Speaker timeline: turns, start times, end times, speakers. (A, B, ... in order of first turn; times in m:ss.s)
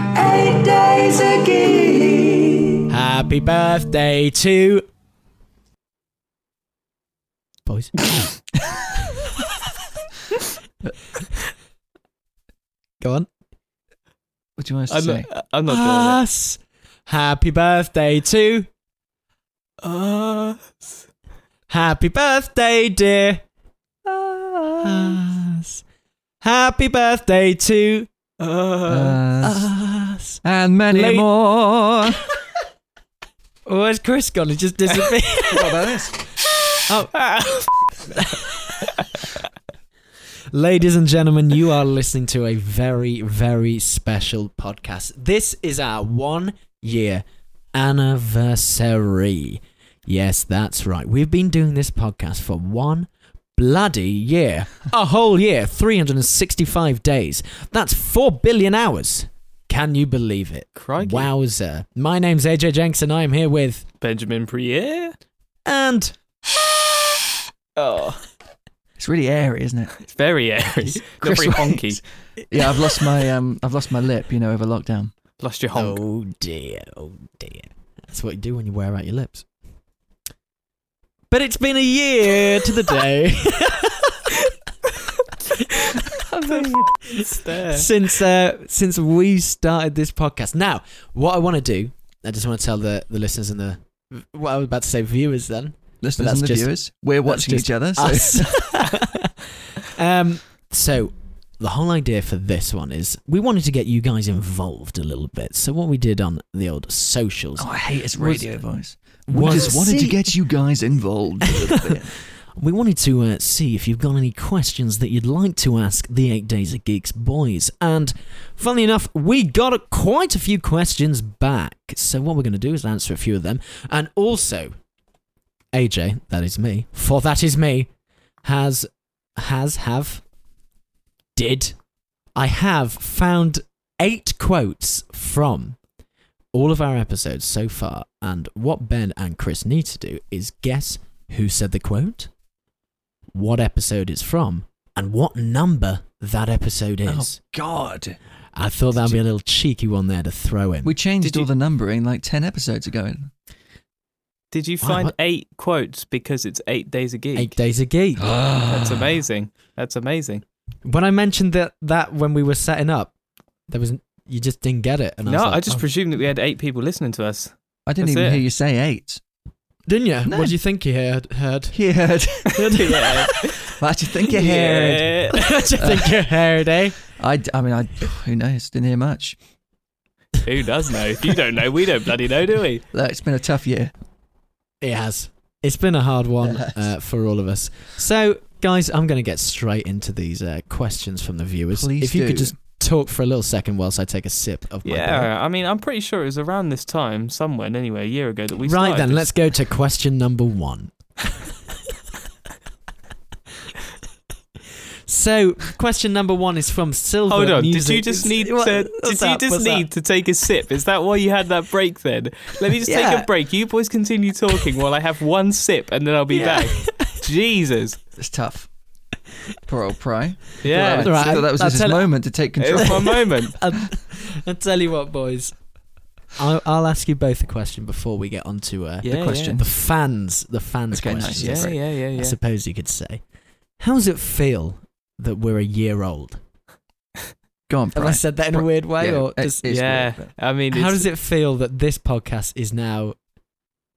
0:00.1-0:02.7 A
0:02.9-0:04.8 B
0:07.6-0:08.3 B
0:13.0-0:13.3 B
0:14.6-0:15.3 C
0:14.9-0:16.2 D
0:15.7-0:18.7 B
0:19.8-0:21.0 D
0:21.7-0:23.4 B
0:24.0-0:25.2 C
0:24.8-0:25.8 B
0:26.4-0:28.1 B
0:28.4-0:29.2 D
0:28.9-0:29.7 C
0:29.4-0:31.3 B
0:30.4-0:32.2 C
0:33.6-0:35.7 B
0:35.5-0:36.2 C
0:36.9-0:37.2 B
0:37.2-0:37.7 D
0:38.0-0:39.1 B
0:40.5-1:03.8 B
1:00.8-1:01.3 D
1:04.0-1:05.1 D
1:05.6-1:06.1 B
1:07.8-1:08.2 D
1:09.0-1:09.9 C
1:10.0-1:12.0 D
1:11.2-1:15.1 C
1:15.4-1:16.0 D
1:15.7-1:19.5 B
1:21.3-1:24.4 B
1:25.6-1:48.5 B
1:26.4-1:27.9 D
1:36.0-1:38.9 C
1:47.6-1:52.1 C
1:49.3-1:50.3 B
1:51.5-2:04.8 B
2:05.7-2:07.9 B
2:08.4-2:10.2 B
2:11.4-2:11.8 B
2:12.3-2:15.8 B
2:16.5-2:22.3 B
2:23.3-2:27.4 B
2:27.0-2:28.2 C
2:28.5-2:31.0 B
2:28.9-2:29.2 C
2:30.8-2:33.3 C
2:31.2-2:31.5 D
2:34.5-2:37.6 D
2:34.8-2:35.1 B
2:37.4-2:38.4 B
2:38.2-2:39.2 C
2:38.6-2:40.4 D
2:40.8-2:43.1 B
2:43.7-2:45.8 B
2:45.2-2:48.4 D
2:47.9-2:49.2 C
2:49.9-2:51.8 B
2:50.2-2:50.5 C
2:51.7-2:52.8 C
2:52.4-2:53.4 B
2:52.8-2:53.7 D
2:53.8-2:55.2 C
2:54.3-2:55.5 D
2:54.3-2:57.0 B
2:55.8-2:56.2 C
2:57.1-2:59.4 C
3:00.4-3:02.8 D
3:02.9-3:03.9 C
3:04.8-3:15.3 B
3:06.4-3:06.9 C
3:11.7-3:12.5 C
3:14.8-3:19.3 D
3:18.6-3:20.9 B
3:25.0-3:29.8 B
3:27.3-3:38.0 D
3:32.8-3:33.3 B
3:36.3-3:37.2 B
3:38.2-3:38.7 C
3:39.6-3:43.2 C
3:40.6-3:41.4 D
3:40.8-3:42.1 B
3:42.6-3:43.6 D
3:42.7-3:45.6 B
3:46.3-3:53.2 B
3:49.0-3:49.6 D
3:49.0-3:49.6 C
3:50.9-3:51.8 C
3:51.3-3:52.4 D
3:53.8-3:56.4 B
3:57.7-4:00.3 C
3:57.9-3:59.6 B
3:59.6-4:01.0 D
4:00.7-4:03.2 B